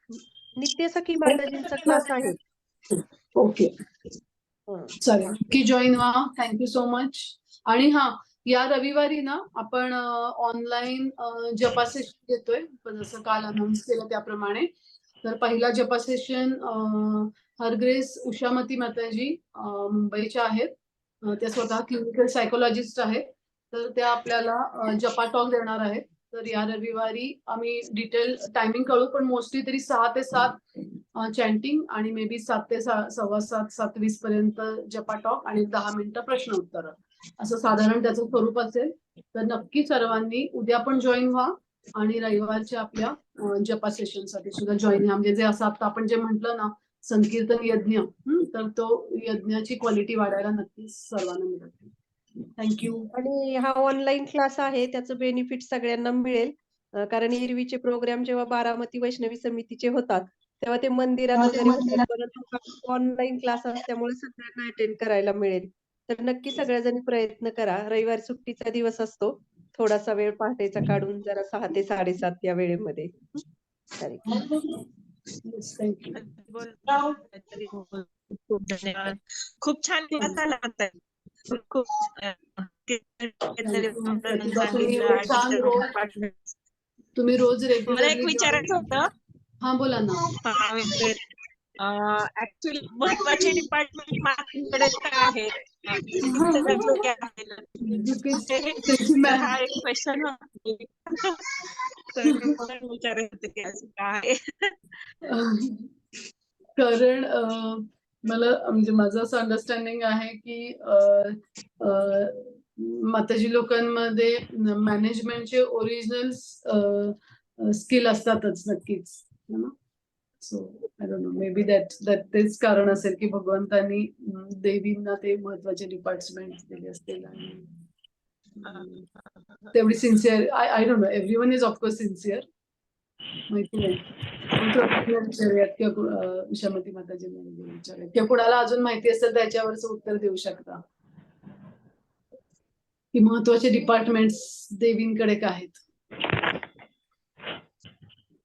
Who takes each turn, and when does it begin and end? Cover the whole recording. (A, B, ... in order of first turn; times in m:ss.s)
0:00.6-0:02.4 A
0:01.3-0:02.3 B
0:02.9-0:03.7 B
0:04.7-0:05.0 A
0:05.0-0:14.7 B
0:15.2-0:30.6 B
0:31.2-0:51.9 B
0:52.6-0:53.1 B
0:53.1-1:13.1 A
1:01.7-1:02.0 B
1:14.0-1:14.4 A
1:14.3-1:14.8 B
1:15.4-1:16.2 B
1:16.2-1:21.0 C
1:21.5-1:26.4 C
1:23.6-1:25.9 B
1:27.2-1:28.8 B
1:27.9-1:29.1 C
1:29.6-1:30.3 B
1:30.4-1:31.2 C
1:31.8-1:41.6 C
1:36.2-1:37.0 B
1:37.8-1:39.6 B
1:42.1-1:44.8 C
1:42.2-1:42.6 B
1:45.2-1:45.9 B
1:46.8-1:59.7 B
2:00.4-2:07.8 B
2:08.6-2:09.0 B
2:09.7-2:12.5 B
2:13.5-2:20.8 B
2:23.1-2:25.8 B